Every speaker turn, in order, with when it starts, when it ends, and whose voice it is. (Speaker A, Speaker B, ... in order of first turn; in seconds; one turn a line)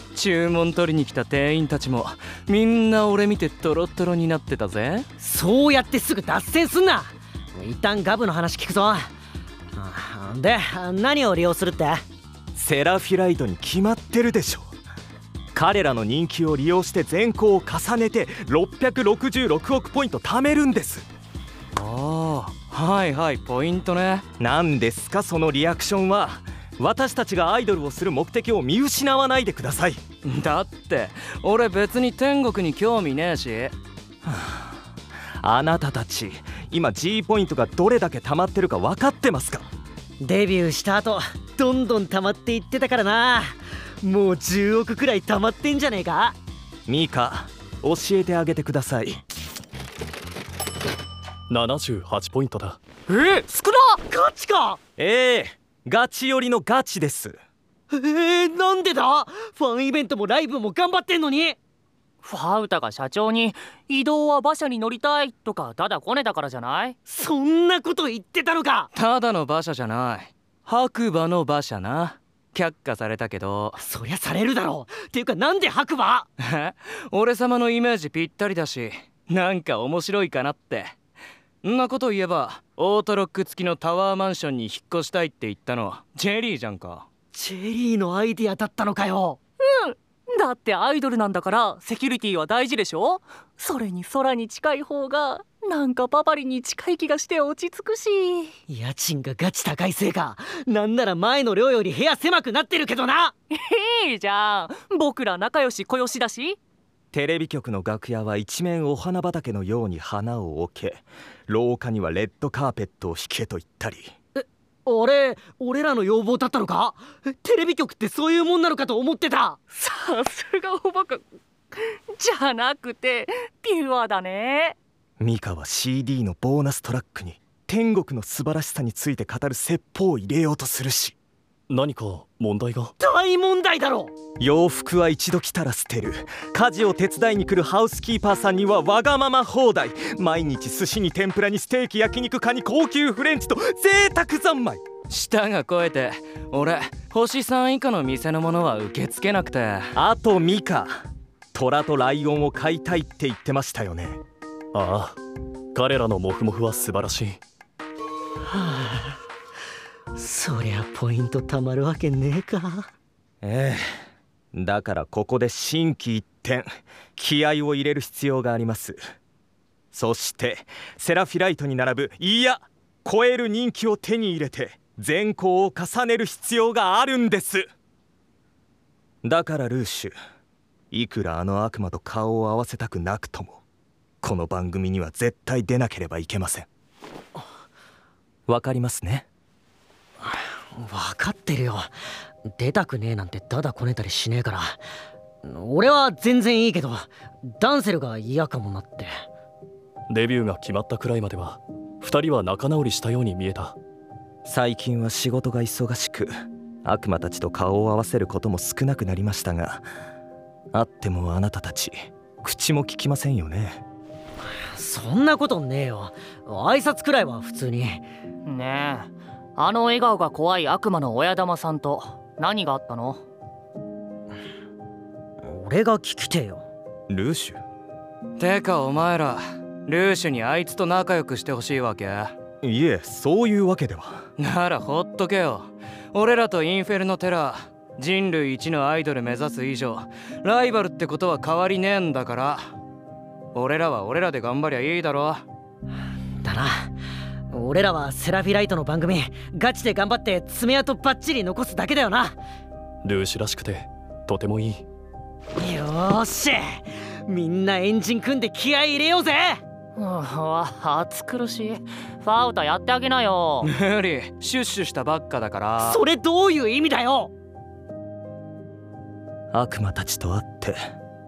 Speaker A: 0.1-5.1
Speaker B: 5.2-9.1
Speaker B: 9.8-12.0
Speaker C: 12.6-14.7
Speaker C: 15.5-21.1
Speaker A: 21.8-24.3
Speaker C: 24.4-30.0
Speaker A: 30.2-33.8
Speaker C: 34.2-34.7
Speaker C: 35.4-39.7
Speaker B: 40.2-46.4
Speaker C: 46.9-49.2
Speaker D: 51.5-52.8
Speaker E: 53.1-54.0
Speaker B: 54.1-54.8
Speaker C: 55.0-57.4
Speaker B: 57.9-61.6
Speaker E: 62.2-67.0
Speaker B: 67.1-68.9
Speaker A: 68.9-73.8
Speaker B: 73.8-76.3
Speaker A: 76.4-81.0
Speaker A: 81.6-87.1
Speaker B: 87.3-89.4
Speaker E: 89.6-98.5
Speaker B: 98.7-103.3
Speaker E: 103.5-106.6
Speaker C: 107.1-114.1
Speaker B: 114.4-119.6
Speaker E: 119.7-124.8
Speaker C: 125.2-131.2
Speaker D: 131.7-132.9
Speaker B: 133.0-134.1
Speaker C: 134.4-144.8
Speaker A: 145.1-149.9
Speaker C: 150.0-150.9
Speaker C: 151.5-154.2
Speaker D: 154.7-155.2
Speaker D: 155.8-157.4
Speaker B: 158.6-159.1
Speaker B: 160.2-162.9
Speaker C: 163.4-163.8
Speaker C: 164.5-166.7
Speaker C: 167.2-169.0
Speaker C: 169.9-177.7
Speaker C: 179.2-180.1
Speaker C: 180.9-183.6
Speaker C: 184.2-186.7
Speaker C: 188.5-189.3
Speaker B: 190.8-191.9
Speaker B: 192.5-194.8
Speaker B: 195.4-199.1
Speaker D: 200.1-203.8
Speaker C: 204.5-206.3
Speaker C: 206.8-209.8
Speaker C: 210.7-213.8
Speaker B: 214.7-218.1
Speaker E: 218.5-223.2
Speaker B: 225.4-226.6
Speaker C: 227.1-227.6
Speaker A: 228.4-232.3
Speaker C: 232.6-234.2
Speaker A: 234.4-242.7
Speaker A: 243.5-245.4
Speaker B: 246.4-246.9
Speaker B: 247.5-252.4
Speaker D: 253.1-254.8
Speaker B: 255.6-259.6
Speaker E: 260.0-263.7
Speaker A: 263.6-266.0
Speaker B: 265.8-267.3
Speaker C: 269.5-270.8